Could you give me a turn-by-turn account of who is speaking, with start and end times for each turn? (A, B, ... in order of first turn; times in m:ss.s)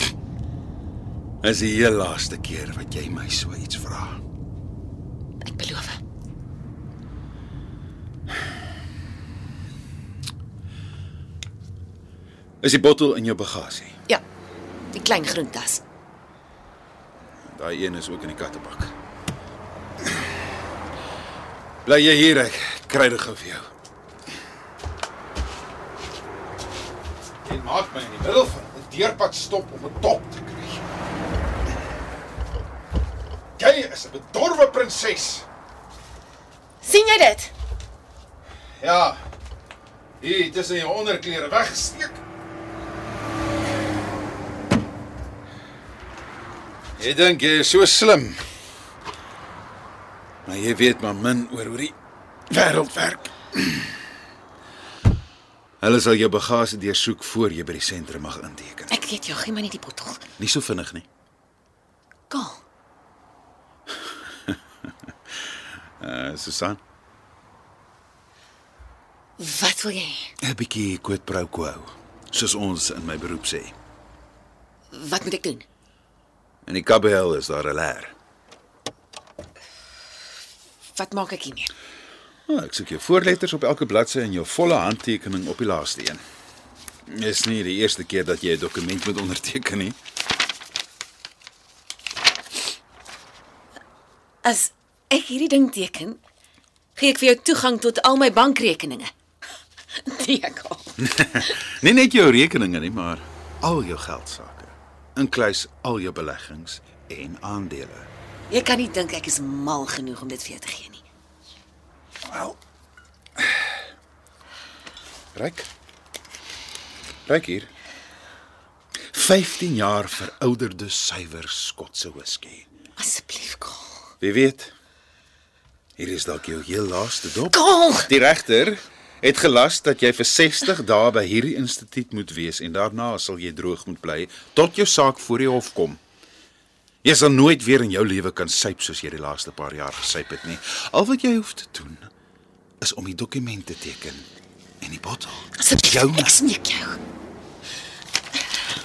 0:01.4-0:04.2 A
0:05.4-0:06.0 B
0:12.6-0:14.0 A
0:14.9-0:15.8 B
0:17.5-0:18.9 A
0:21.8-0:23.6 A
0:27.4-0:30.8 A
0:33.6-0:35.4 A
0:36.8-0:37.5 B
0:38.8-0:39.2 A
0:40.2-0:42.2 A
0:47.0-0:48.4 A
0:50.4-0:51.9 A
0:52.5-0:53.9 A
0:55.8-0:58.9 A
0:58.9-1:00.2 B
1:00.4-1:01.0 A
1:02.3-1:02.6 B
1:06.0-1:06.8 A
1:09.4-1:10.3 B
1:10.4-1:13.7 A
1:14.9-1:15.6 B
1:16.6-1:18.1 A
1:21.0-1:21.7 B
1:22.5-1:26.2 A
1:27.1-1:30.0 A
1:34.4-1:36.2 B
1:37.0-1:39.1 B
1:40.0-1:40.9 B
1:41.0-1:48.1 A
1:48.5-1:51.0 B
1:52.3-1:52.6 A
1:55.3-1:55.7 A
1:57.3-1:57.7 A
1:59.1-2:02.7 A
2:03.0-2:04.0 B
2:04.2-2:04.7 A
2:06.0-2:16.0 A
2:07.5-2:08.1 B
2:17.0-2:22.1 A
2:22.8-2:24.3 A
2:24.8-2:26.4 A
2:25.6-2:27.0 B